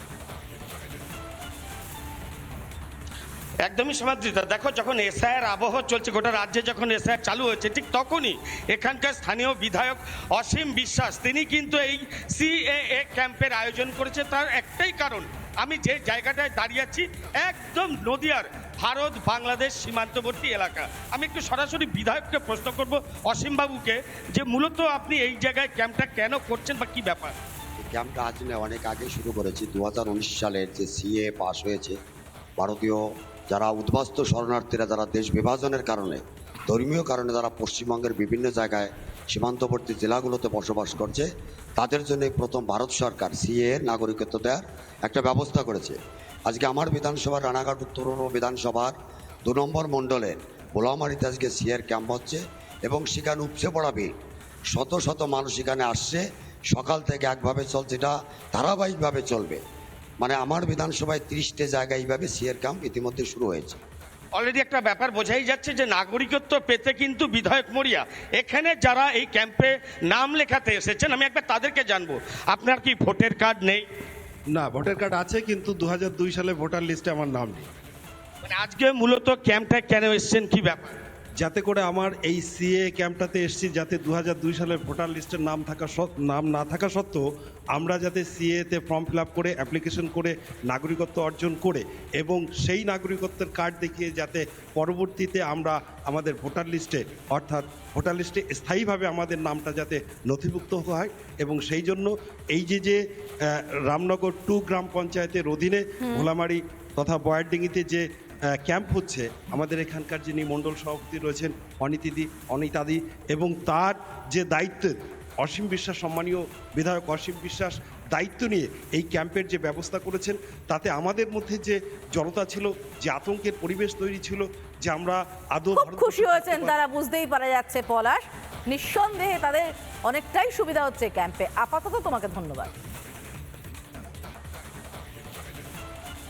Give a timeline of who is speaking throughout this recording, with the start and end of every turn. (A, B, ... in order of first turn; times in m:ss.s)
0:03.7-0:27.4 A
0:27.8-0:32.0 B
0:32.6-0:46.0 B
0:46.5-0:48.9 B
0:49.4-0:54.1 B
0:54.7-0:59.6 B
1:00.2-1:03.8 B
1:04.4-1:13.8 A
1:14.6-1:17.7 C
1:18.4-1:21.0 A
1:21.4-1:27.2 C
1:27.8-1:43.0 C
1:43.5-1:48.0 C
1:48.6-2:06.8 C
2:05.8-2:12.7 D